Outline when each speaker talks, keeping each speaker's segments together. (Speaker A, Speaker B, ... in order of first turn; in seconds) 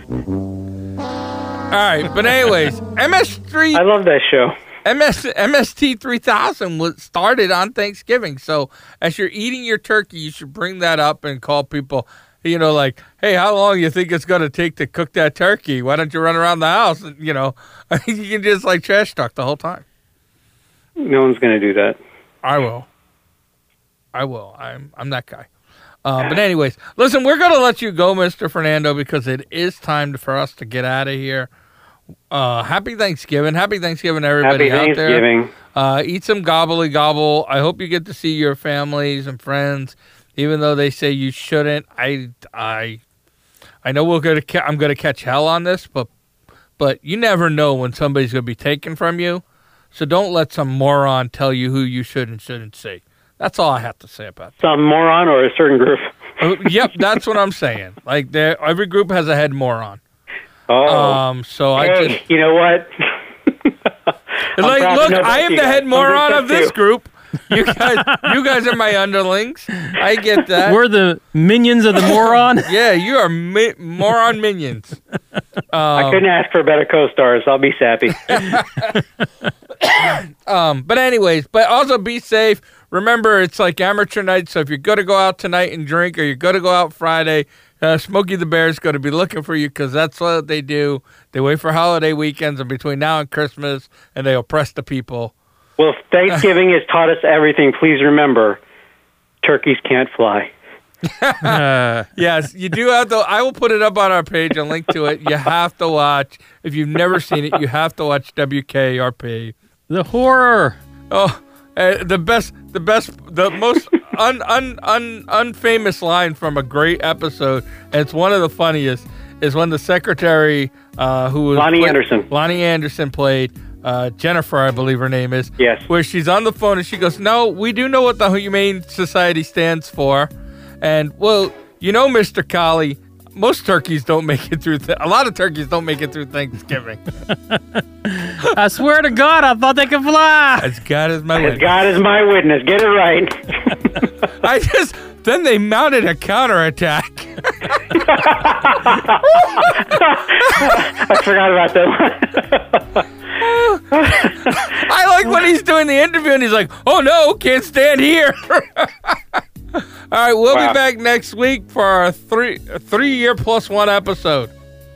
Speaker A: 1.7-3.8, 4.8-19.8, 22.4-22.9, 24.1-25.5, 26.0-31.5, 32.3-43.0, 43.8-46.1, 46.8-54.5, 56.4-60.0, 60.9-62.2, 64.5-70.8, 72.0-75.0, 75.7-76.2, 78.2-79.0, 79.8-95.3, 101.0-109.5, 111.1-130.3, 130.8-137.0, 140.6-141.7, 144.4-148.0, 149.2-151.0, 153.4-164.5
Speaker B: 3.7-4.5, 21.0-22.0, 34.4-35.5, 54.6-56.1, 60.7-61.2, 61.8-63.1, 64.6-66.7, 75.9-78.4, 95.8-98.6, 99.4-100.5, 121.5-122.3, 125.6-125.9, 141.4-143.9, 147.9-153.0, 153.9-154.6, 160.5-160.8
Speaker C: 70.6-72.7, 101.4-102.1, 109.9-110.8, 137.3-140.7